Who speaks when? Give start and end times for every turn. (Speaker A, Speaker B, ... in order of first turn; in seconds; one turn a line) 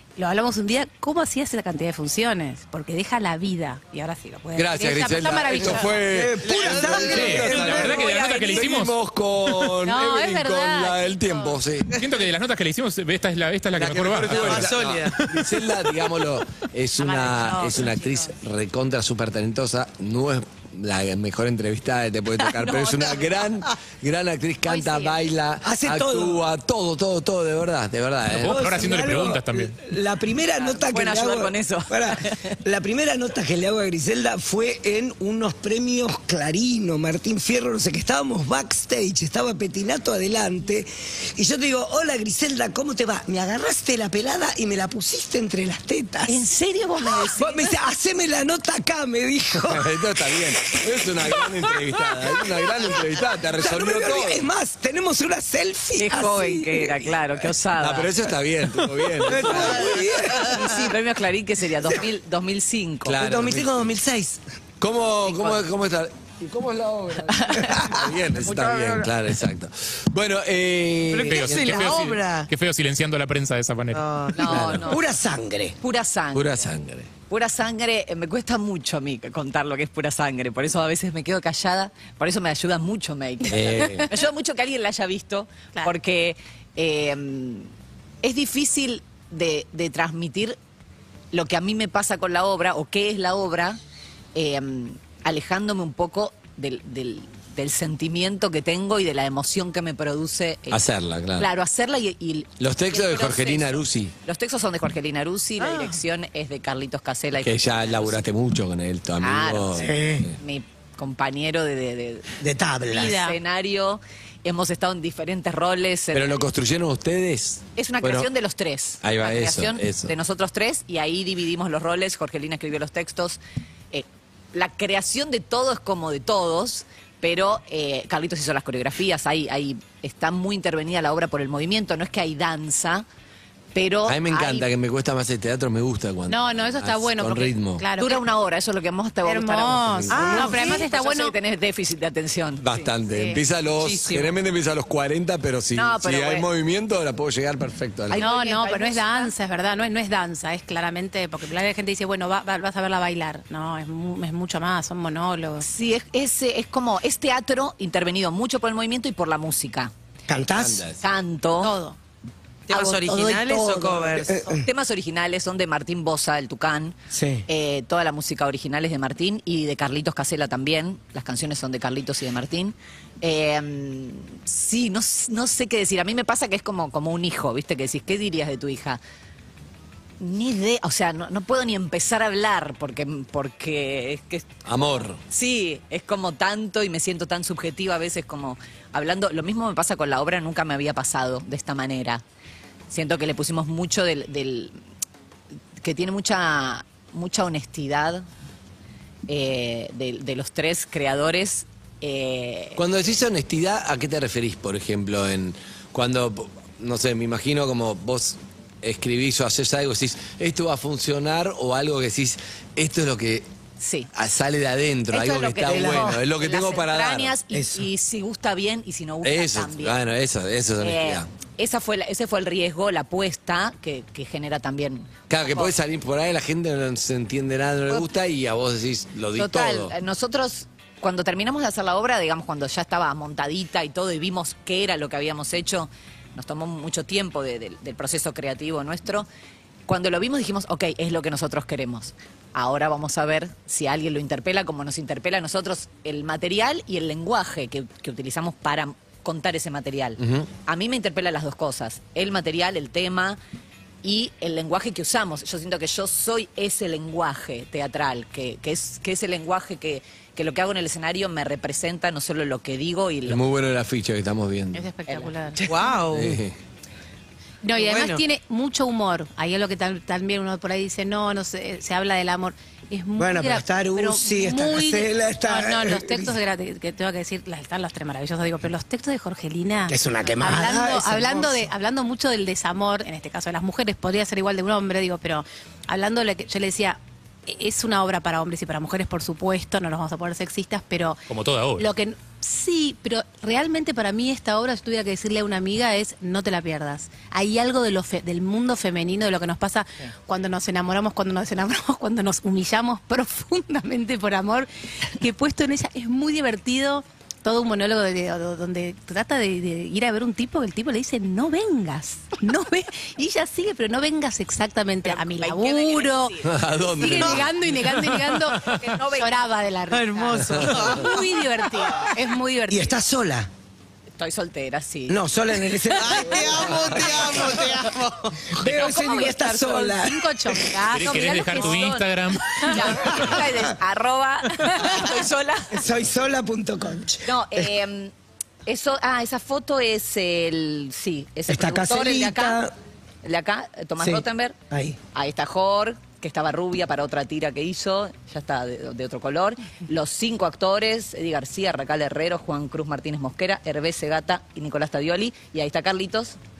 Speaker A: 0.2-6.0
Speaker B: 4.5-11.9
Speaker C: 6.1-8.3
Speaker D: 6.4-8.3
Speaker E: 7.0-8.9
Speaker A: 9.8-11.6
Speaker E: 11.9-14.7
Speaker D: 13.8-15.7
Speaker B: 13.8-28.9
Speaker A: 17.0-18.3
Speaker F: 22.6-23.2
Speaker A: 24.7-25.2
Speaker C: 25.6-26.4
Speaker E: 28.3-29.8
Speaker C: 28.4-46.5
Speaker F: 30.5-32.5
Speaker F: 46.3-47.8
Speaker C: 47.2-49.9
Speaker B: 49.7-54.5
Speaker C: 51.4-51.8
Speaker C: 53.6-57.1
Speaker F: 56.0-58.1
Speaker B: 57.8-60.0
Speaker C: 59.3-60.9
Speaker F: 60.4-63.2
Speaker B: 63.1-63.9
Speaker C: 63.2-64.4
Speaker B: 64.8-72.0
Speaker F: 65.3-65.6
Speaker F: 67.3-67.9
Speaker D: 68.3-69.1
Speaker D: 71.1-72.5
Speaker E: 71.3-74.0
Speaker D: 73.9-74.8
Speaker F: 74.3-75.0
Speaker B: 74.5-75.0
Speaker C: 74.9-75.8
Speaker F: 75.8-76.5
Speaker B: 76.3-77.1
Speaker F: 77.3-87.7
Speaker B: 83.5-84.1
Speaker A: 83.8-84.1
Speaker F: 88.2-90.6
Speaker F: 91.3-93.8
Speaker F: 94.3-108.3
Speaker B: 100.7-101.5
Speaker B: 102.6-104.1
Speaker D: 105.6-106.0
Speaker B: 107.4-110.4
Speaker F: 109.2-112.3
Speaker C: 109.8-110.3
Speaker C: 112.4-113.2
Speaker A: 112.9-113.4
Speaker F: 112.9-116.4
Speaker B: 116.1-118.3
Speaker F: 117.8-123.4
Speaker B: 119.0-120.1
Speaker F: 123.9-133.1
Speaker F: 133.7-134.7
Speaker B: 134.1-137.8
Speaker A: 136.3-138.2
Speaker F: 138.0-142.9
Speaker A: 139.2-141.4
Speaker C: 140.2-140.5
Speaker B: 142.6-148.2
Speaker A: 143.1-143.4
Speaker D: 143.8-144.3
Speaker F: 145.8-146.5
Speaker F: 148.1-149.3
Speaker A: 148.2-155.7
Speaker F: 155.6-159.9
Speaker C: 160.3-160.8
Speaker B: 160.6-161.0
Speaker F: 161.0-161.8
Speaker A: 161.6-162.0
Speaker D: 162.7-164.4
Speaker F: 162.7-179.0
Speaker C: 164.3-164.7
Speaker C: 167.1-167.4
Speaker F: 180.2-184.6
Speaker B: 184.7-185.2
Speaker F: 185.2-192.2
Speaker F: 192.9-194.8
Speaker F: 195.8-198.3
Speaker F: 199.3-202.8
Speaker B: 202.8-213.5
Speaker F: 213.8-214.1
Speaker B: 214.1-217.3
Speaker F: 215.1-220.0
Speaker C: 215.7-216.2
Speaker C: 217.5-217.9
Speaker B: 219.2-221.3
Speaker F: 220.8-225.7
Speaker B: 225.3-229.9
Speaker F: 229.3-239.3
Speaker F: 239.9-253.4
Speaker B: 250.2-250.5
Speaker F: 254.0-263.4
Speaker B: 263.3-264.9
Speaker A: 264.7-265.6
Speaker F: 265.1-265.8
Speaker D: 265.7-266.4
Speaker B: 266.1-266.6
Speaker A: 267.6-291.2
Speaker D: 267.8-268.2
Speaker C: 273.2-276.4
Speaker C: 279.9-281.7
Speaker E: 291.3-291.9
Speaker A: 291.8-316.4
Speaker F: 315.0-317.4
Speaker B: 316.4-317.5
Speaker A: 316.9-323.0
Speaker F: 318.6-319.4
Speaker D: 319.9-321.3
Speaker B: 320.6-320.9
Speaker C: 322.7-323.5
Speaker F: 324.2-325.2
Speaker C: 325.1-326.7
Speaker F: 325.9-327.4
Speaker D: 325.9-328.5
Speaker C: 328.5-330.8
Speaker F: 328.6-329.9
Speaker A: 329.4-331.9
Speaker E: 330.9-333.4
Speaker F: 331.0-335.8
Speaker C: 333.0-333.7
Speaker A: 334.6-335.0
Speaker C: 335.7-337.7
Speaker F: 337.2-338.1
Speaker F: 338.7-342.6
Speaker C: 341.5-342.7
Speaker F: 343.2-344.6
Speaker C: 344.0-345.0
Speaker F: 345.1-356.4